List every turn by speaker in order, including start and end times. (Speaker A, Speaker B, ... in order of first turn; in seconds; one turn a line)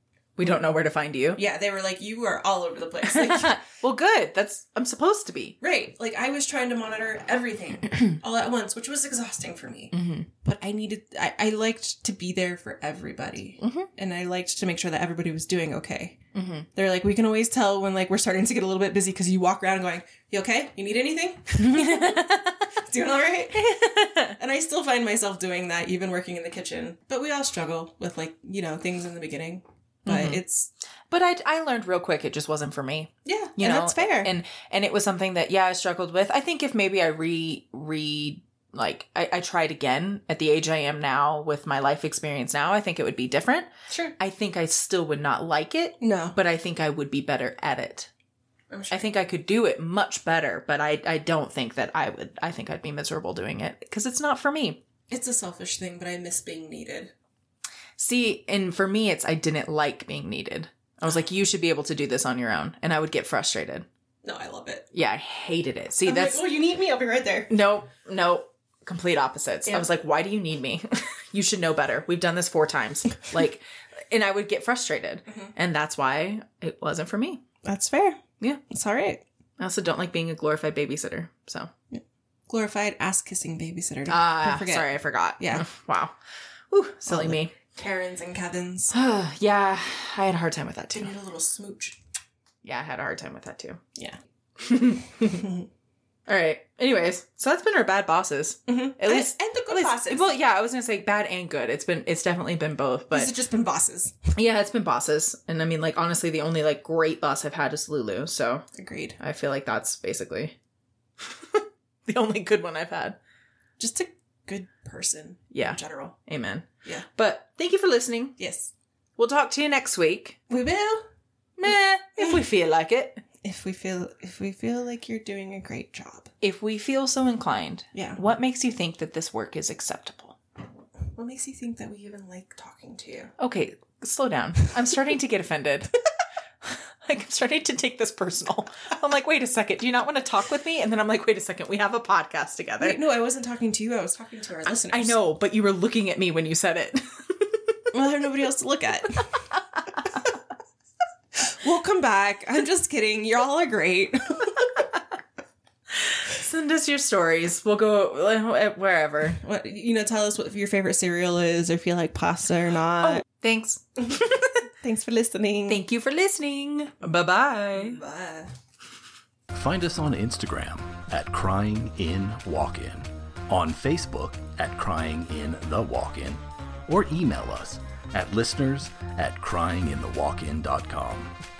Speaker A: 0.4-1.4
Speaker B: 1.4-3.6
Speaker A: 3.0-5.6
Speaker B: 5.6-16.2
Speaker A: 9.9-10.3
Speaker A: 13.6-13.9
Speaker A: 16.3-16.7
Speaker B: 16.7-30.7
Speaker A: 21.6-22.6
Speaker A: 23.6-24.4
Speaker A: 30.1-30.4
Speaker A: 31.1-48.1
Speaker B: 33.2-34.3
Speaker B: 43.9-44.1
Speaker B: 46.0-46.4
Speaker B: 48.7-49.1
Speaker A: 48.9-54.8
Speaker B: 55.1-57.1
Speaker A: 58.0-63.9
Speaker B: 64.2-64.9
Speaker A: 64.9-66.4
Speaker B: 66.0-67.5
Speaker A: 67.5-77.4
Speaker B: 75.3-75.5
Speaker B: 77.6-79.2
Speaker A: 79.6-81.7
Speaker B: 81.9-85.7
Speaker A: 84.1-86.1
Speaker A: 86.7-87.5
Speaker B: 87.1-88.9
Speaker A: 88.9-91.1
Speaker B: 90.9-92.0
Speaker A: 92.6-93.8
Speaker A: 94.6-95.5
Speaker A: 96.3-103.3
Speaker B: 98.7-100.3
Speaker B: 103.1-104.1
Speaker A: 104.3-108.6
Speaker B: 108.7-109.2
Speaker A: 109.2-110.5
Speaker A: 111.2-113.2
Speaker B: 113.8-116.2
Speaker A: 115.5-118.3
Speaker B: 118.4-118.7
Speaker A: 119.2-120.4
Speaker B: 120.5-121.0
Speaker A: 121.6-123.2
Speaker B: 123.4-126.3
Speaker A: 126.4-130.4
Speaker B: 127.9-128.2
Speaker B: 131.1-133.3
Speaker A: 133.4-135.9
Speaker A: 136.6-143.0
Speaker B: 142.8-145.2
Speaker A: 144.7-147.8
Speaker B: 147.9-149.4
Speaker B: 151.3-154.7
Speaker A: 155.9-159.4
Speaker B: 159.4-163.2
Speaker A: 163.0-164.6
Speaker B: 164.0-165.8
Speaker A: 165.7-168.0
Speaker B: 167.7-168.5
Speaker C: 169.5-181.3